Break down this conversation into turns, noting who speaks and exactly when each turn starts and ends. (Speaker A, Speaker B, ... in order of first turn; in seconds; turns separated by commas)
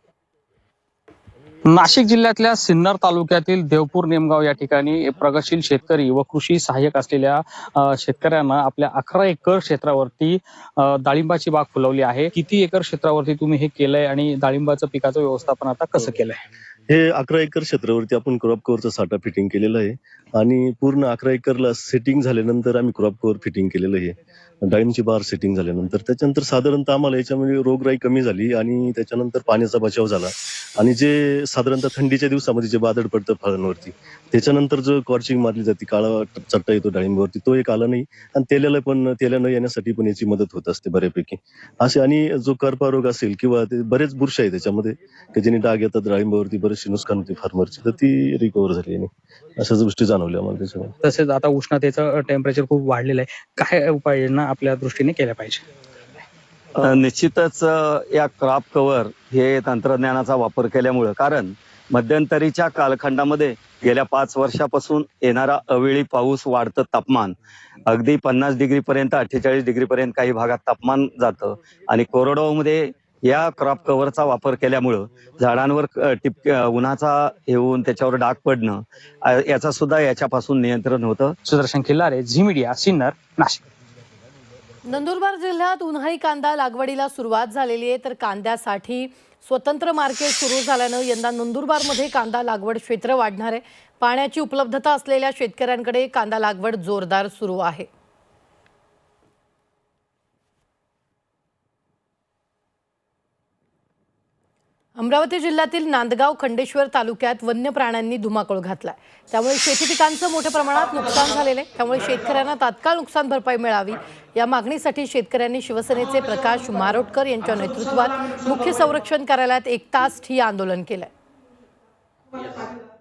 Speaker A: 1.7-16.4, Speaker B: 16.9-50.9, Speaker A: 51.0-55.6, Speaker C: 56.8-81.3, Speaker A: 81.4-83.6, Speaker D: 84.9-97.9, Speaker D: 105.0-121.1